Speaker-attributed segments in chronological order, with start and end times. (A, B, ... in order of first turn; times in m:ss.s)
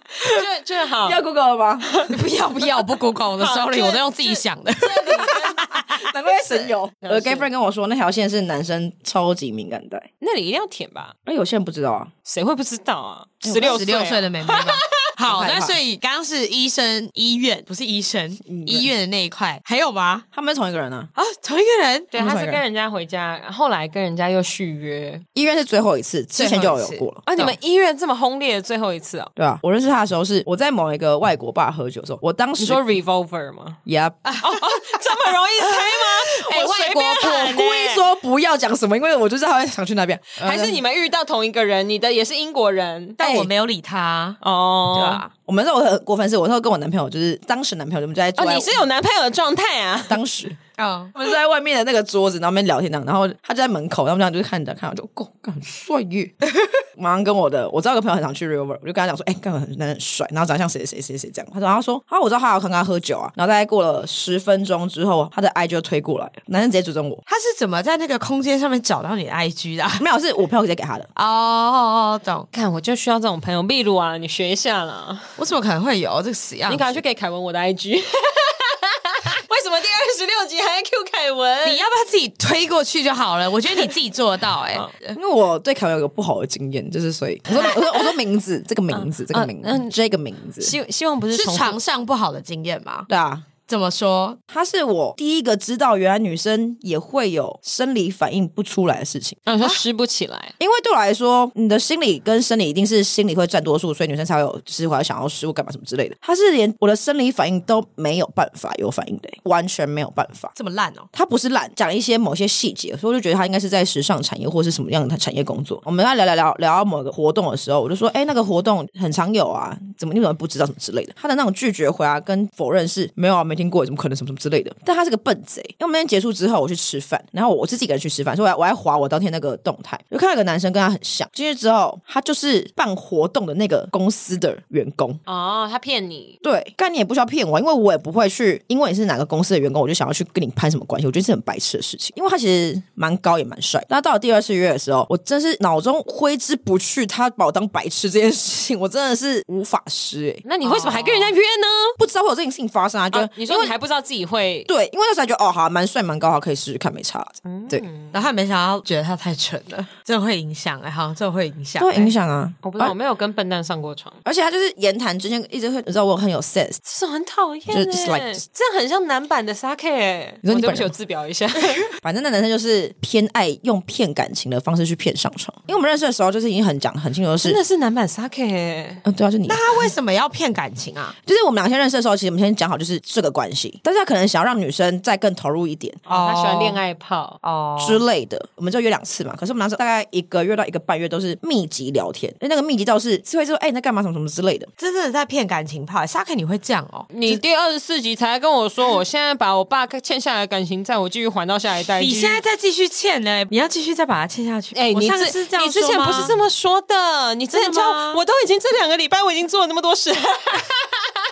0:00.2-0:01.2 A
0:01.0-0:01.9 B
0:02.1-0:05.4 C
0:03.4-0:07.5 A
0:05.4-0:10.1 B
0:10.2-0:11.1 A
0:11.2-0:12.1 B
0:12.3-0:15.0 A
0:13.4-0:14.0 B
0:13.6-0:20.2 C
0:15.3-0:15.8 B
0:18.5-0:18.9 B
0:20.3-0:21.1 B
0:21.2-0:22.1 C
0:22.1-0:25.2 A
0:22.2-0:22.6 B
0:25.4-0:27.6 B
0:26.4-0:27.1 C
0:27.3-0:29.3 A
0:29.4-0:32.8 B
0:32.6-0:33.8 A
0:33.9-0:34.3 B
0:34.2-0:34.5 C
0:34.4-0:38.1 A
0:35.6-0:37.5 C
0:37.2-0:40.8 B
0:40.4-0:43.2 A
0:43.2-0:44.4 C
0:43.2-0:43.5 B
0:44.4-0:45.2 A
0:44.9-0:45.3 C
0:45.5-0:48.8 B
0:48.4-0:50.2 A
0:50.1-0:50.6 B
0:50.8-0:51.1 C
0:51.2-0:56.4 B
0:57.0-1:07.2 B
1:07.3-1:10.1 C
1:10.0-1:11.1 B
1:11.2-1:12.5 C
1:12.5-1:15.4 A
1:15.4-1:17.0 C
1:16.7-1:21.8 A
1:21.6-1:25.2 C
1:25.2-1:30.7 B
1:27.5-1:28.0 A
1:28.9-1:30.0 A
1:30.6-1:31.8 A
1:31.3-1:33.1 C
1:33.1-1:33.5 B
1:33.7-1:34.4 C
1:34.5-1:39.4 B
1:39.5-1:40.5 A
1:40.6-1:50.5 B
1:50.6-1:51.1 C
1:51.1-2:15.2 B
2:15.3-2:16.4 A
2:16.4-2:30.4 B
2:30.4-2:32.0 A
2:30.6-2:31.4 C
2:32.0-2:33.7 B
2:33.1-2:34.7 A
2:34.7-2:37.8 B
2:37.4-2:38.2 A
2:38.1-2:42.1 C
2:41.8-2:43.0 B
2:42.6-2:44.2 A
2:44.2-2:46.8 B
2:46.9-2:51.9 A
2:47.7-2:48.4 B
2:50.4-2:50.9 B
2:52.0-2:57.6 B
2:57.4-2:59.0 A
2:59.0-2:59.9 B
2:59.5-3:01.2 C
3:01.3-3:06.0 B
3:06.1-3:06.8 C
3:06.1-3:07.4 A
3:07.4-3:08.0 C
3:07.8-3:14.7 B
3:14.8-3:17.1 C
3:17.1-3:22.4 A
3:22.0-3:26.4 C
3:24.7-3:31.0 A
3:27.5-3:28.2 C